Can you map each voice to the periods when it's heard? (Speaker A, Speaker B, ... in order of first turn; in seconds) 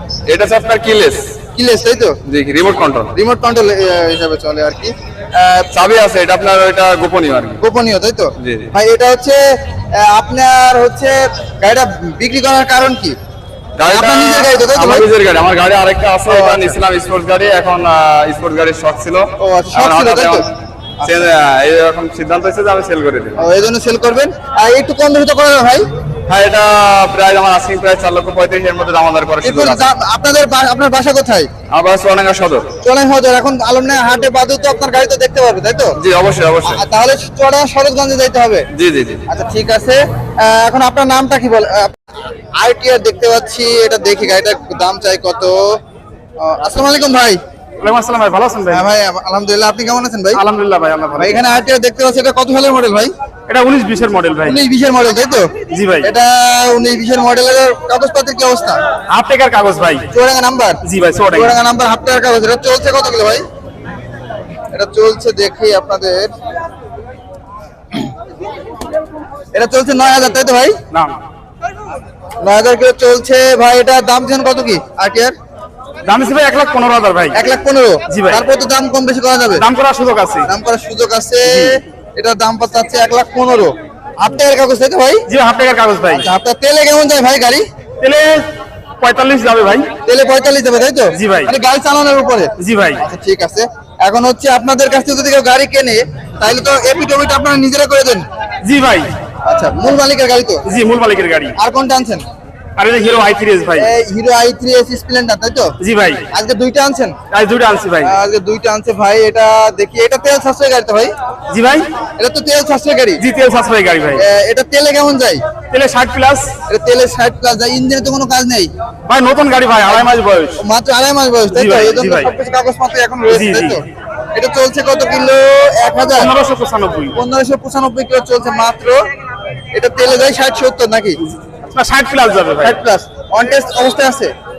Speaker A: 0.3-1.3, 2.2-3.1, 5.7-7.6, 8.4-8.7, 13.8-20.5, 21.0-23.4, 26.3-29.9, 31.7-32.7, 36.0-36.8, 38.7-39.2
Speaker B: 1.5-2.2, 3.1-5.7, 7.6-9.4, 10.0-13.2, 13.8-15.1, 16.3-16.8, 19.4-20.4, 21.0-21.2, 23.4-25.9, 29.4-31.5, 32.8-36.0, 36.6-38.6, 39.3-42.0, 42.6-45.6, 46.4-47.4, 48.7-50.4, 51.2-53.1, 54.4-58.8, 60.1-60.8, 61.3-63.4, 64.7-66.3, 69.5-70.8, 72.4-75.3, 77.3-79.7, 80.4-85.2, 86.1-87.6, 90.0-98.2, 99.5-100.6, 101.5-102.2, 103.8-105.7, 106.3-107.2, 108.0-111.1, 112.2-113.2, 114.2-115.4, 116.7-118.7, 120.6-126.3, 127.1-129.0, 129.7-131.2, 132.6-134.3
Speaker C: 47.8-48.9, 50.3-51.4, 53.5-54.6, 55.7-56.1, 59.1-60.1, 60.8-61.5, 70.9-71.2, 76.0-77.4, 78.1-78.4, 79.6-80.5, 81.4-81.8, 85.3-86.3, 88.0-89.9, 91.1-91.5, 92.6-93.0, 98.6-99.1, 100.7-101.5, 102.8-103.9, 105.8-106.2, 107.3-108.1, 111.5-111.9, 113.2-114.2, 115.7-116.5, 119.0-120.6, 121.5-122.3, 123.3-123.8, 126.2-127.1, 131.3-132.8